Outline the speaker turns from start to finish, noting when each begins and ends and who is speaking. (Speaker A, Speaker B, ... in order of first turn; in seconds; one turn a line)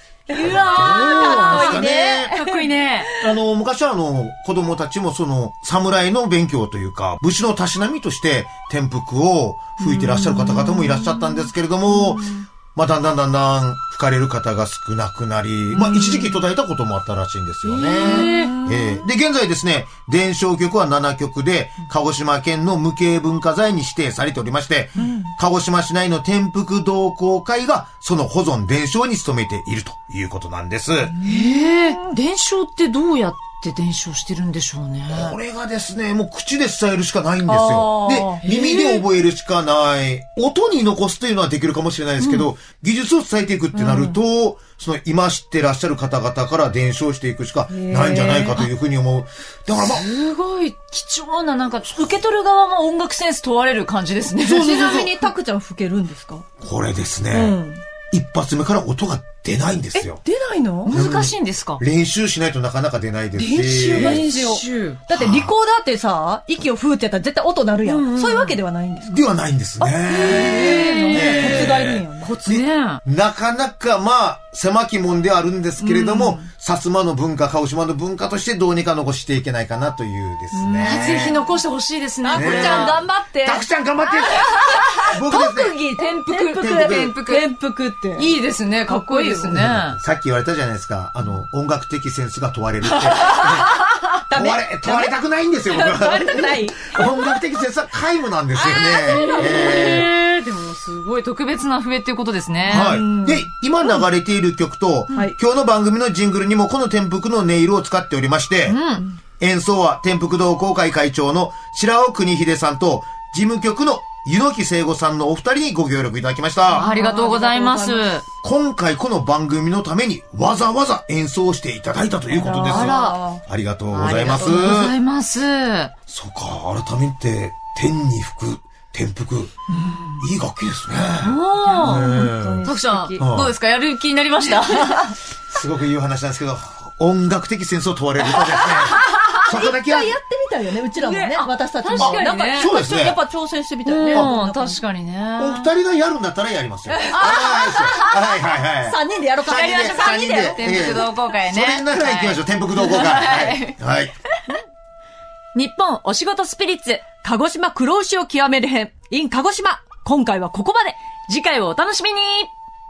Speaker A: 0.3-3.3
Speaker B: 0.3-3.1
Speaker C: 0.3-2.4
Speaker C: 3.2-31.1
Speaker A: 9.8-12.4
Speaker A: 15.7-16.3
Speaker B: 17.7-18.6
Speaker A: 17.8-19.0
Speaker A: 25.0-25.3
Speaker B: 31.2-35.4
Speaker A: 31.2-32.1
Speaker C: 35.1-50.0
Speaker A: 37.5-39.0
Speaker B: 43.7-44.2
Speaker A: 47.7-48.7
Speaker B: 49.7-55.0
Speaker C: 54.4-55.3
Speaker A: 54.5-56.5
Speaker C: 56.6-60.2
Speaker A: 57.3-57.8
Speaker A: 59.9-61.0
Speaker B: 60.8-61.8
Speaker C: 60.9-64.3
Speaker A: 63.4-69.2
Speaker B: 63.9-65.0
Speaker C: 65.1-65.5
Speaker B: 67.8-68.6
Speaker C: 69.0-81.4
Speaker A: 69.8-72.3
Speaker B: 70.1-73.0
Speaker A: 75.8-76.4
Speaker A: 80.5-81.5
Speaker B: 80.8-83.0
Speaker A: 82.2-83.6
Speaker C: 82.3-85.8
Speaker A: 84.2-88.3
Speaker B: 84.7-87.5
Speaker C: 86.7-87.1
Speaker B: 88.1-90.0
Speaker A: 88.9-89.5
Speaker C: 89.5-93.8
Speaker A: 93.2-95.1
Speaker C: 94.3-100.1
Speaker A: 95.7-97.1
Speaker A: 98.6-100.0
Speaker B: 99.0-103.0
Speaker A: 102.7-103.5
Speaker C: 102.7-108.8
Speaker A: 105.1-105.3
Speaker B: 108.7-109.1
Speaker C: 109.4-116.9
Speaker A: 116.7-118.2
Speaker B: 116.7-118.2
Speaker C: 118.4-125.0
Speaker A: 122.3-123.4
Speaker B: 122.7-123.3
Speaker B: 123.9-125.9
Speaker C: 126.1-129.5
Speaker C: 130.2-133.5
Speaker B: 131.2-135.2
Speaker A: 131.6-133.2
Speaker C: 135.5-140.2
Speaker A: 138.7-144.8
Speaker B: 140.9-142.7
Speaker C: 141.9-143.2
Speaker B: 143.8-145.7
Speaker C: 144.1-144.3
Speaker C: 145.4-154.1
Speaker A: 146.9-151.2
Speaker B: 147.2-148.1
Speaker B: 149.6-153.8
Speaker B: 155.5-157.0
Speaker A: 157.2-161.2
Speaker B: 161.2-162.5